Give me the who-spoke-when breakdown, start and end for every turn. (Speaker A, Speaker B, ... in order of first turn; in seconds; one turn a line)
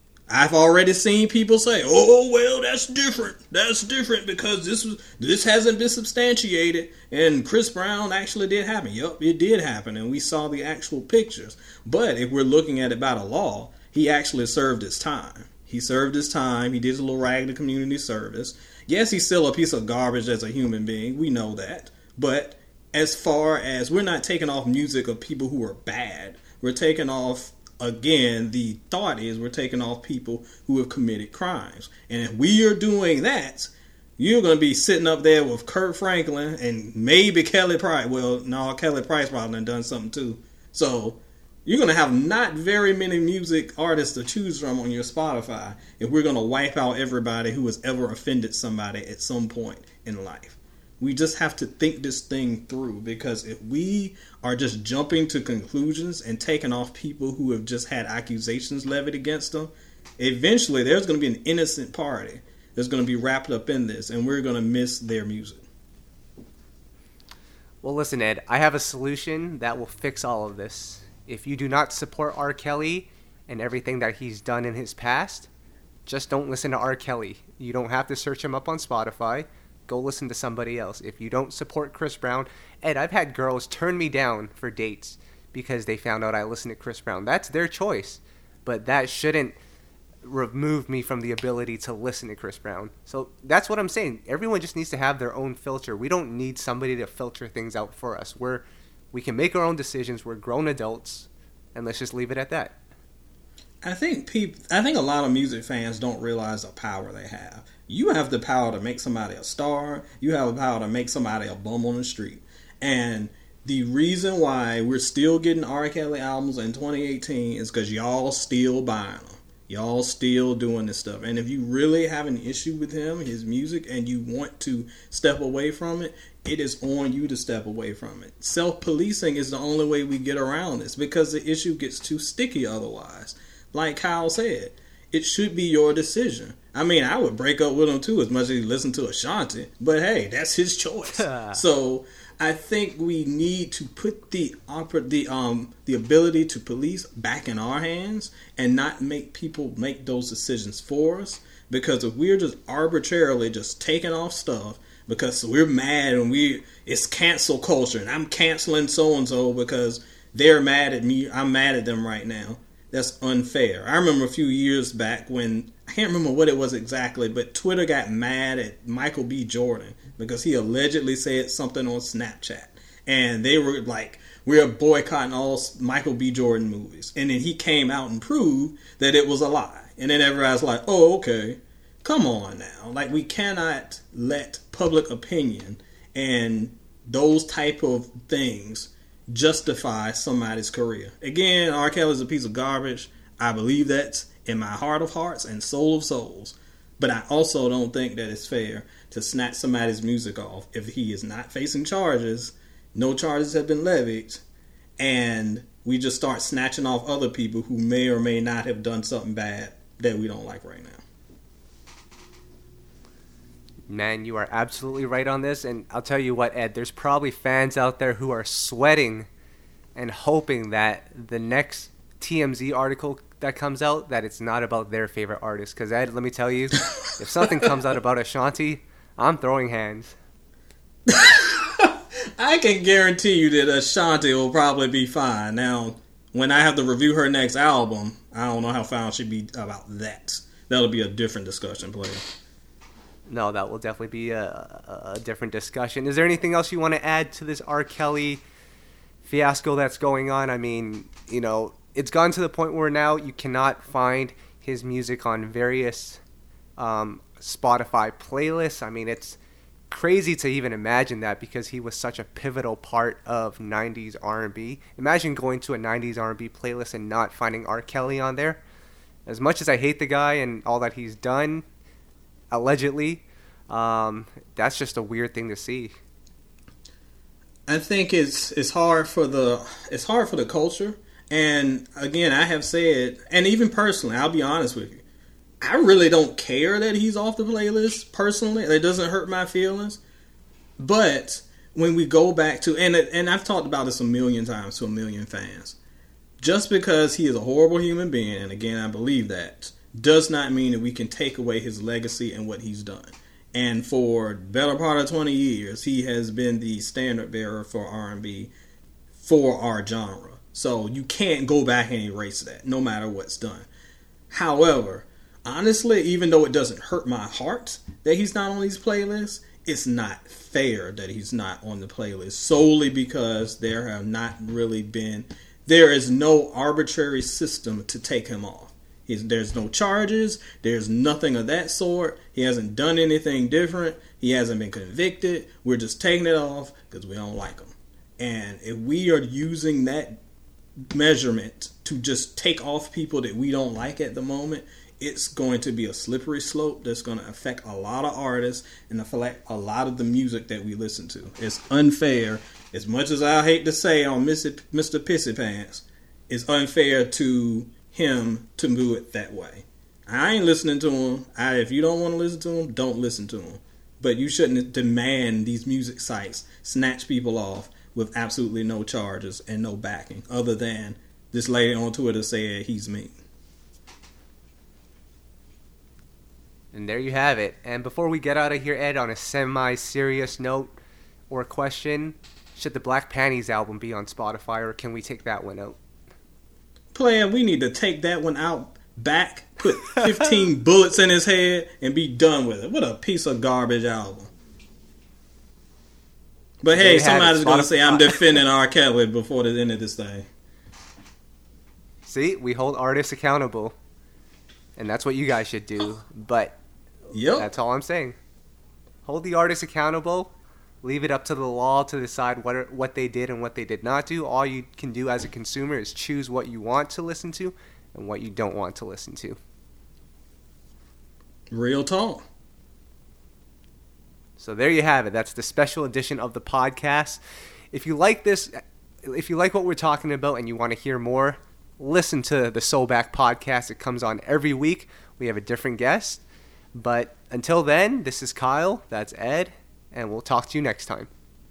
Speaker A: 0.3-65.6
Speaker B: 67.8-75.5
Speaker B: 76.0-89.5
Speaker B: 90.2-102.8
Speaker A: 103.8-204.4
Speaker B: 141.2-141.6
Speaker A: 205.0-211.0
Speaker B: 213.9-219.3
Speaker B: 219.9-230.1
Speaker A: 231.1-242.2
Speaker B: 243.3-248.4
Speaker B: 249.2-256.2
Speaker B: 256.8-259.4
Speaker B: 259.9-268.6
Speaker B: 269.2-271.6
Speaker B: 272.5-275.9
Speaker A: 277.7-285.0
Speaker A: 285.6-290.0
Speaker A: 290.8-295.8
Speaker A: 296.4-308.5
Speaker A: 309.2-313.7
Speaker A: 314.3-340.2
Speaker A: 340.9-373.2
Speaker B: 376.7-380.7
Speaker B: 381.3-385.8
Speaker A: 386.9-394.3
Speaker A: 396.6-400.3
Speaker B: 396.7-398.4
Speaker B: 402.0-403.7
Speaker B: 404.8-406.6
Speaker A: 407.1-407.5
Speaker B: 407.3-408.1
Speaker B: 409.1-410.3
Speaker B: 410.8-419.4
Speaker A: 421.5-422.2
Speaker B: 424.4-427.2
Speaker B: 427.7-428.5
Speaker B: 429.0-436.2
Speaker B: 436.7-441.1